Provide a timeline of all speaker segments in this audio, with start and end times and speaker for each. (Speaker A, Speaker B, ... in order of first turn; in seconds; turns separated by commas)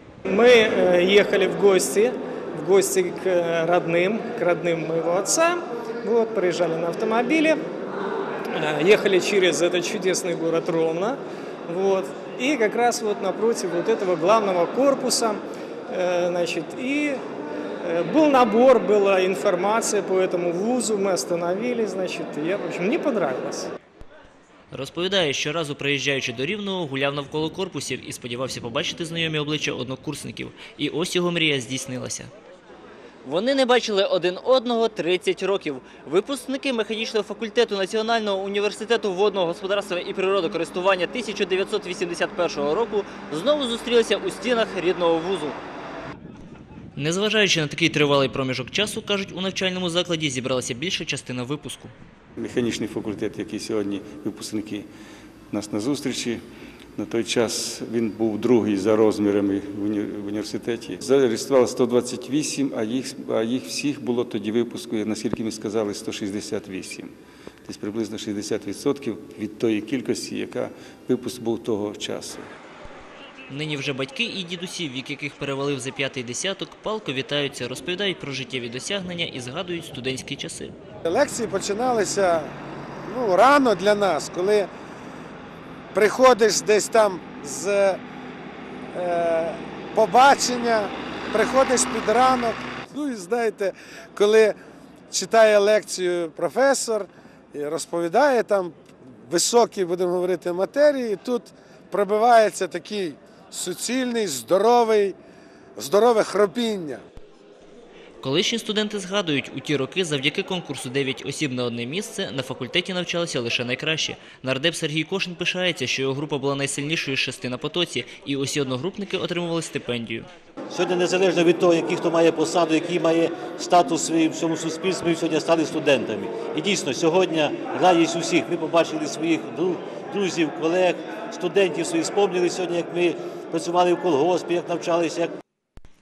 Speaker A: 0.3-7.6, Speaker A: 8.5-17.2, Speaker A: 17.8-23.7, Speaker B: 24.7-32.3, Speaker B: 33.2-45.6, Speaker B: 47.0-51.9, Speaker C: 52.4-54.9, Speaker C: 55.5-56.4, Speaker C: 57.0-67.1, Speaker C: 67.7-72.5, Speaker B: 73.5-80.7, Speaker D: 81.1-82.5, Speaker D: 83.1-84.7, Speaker D: 85.9-88.0, Speaker D: 89.0-94.5, Speaker D: 95.1-105.2, Speaker D: 105.8-107.0, Speaker B: 108.2-120.3, Speaker E: 120.7-135.3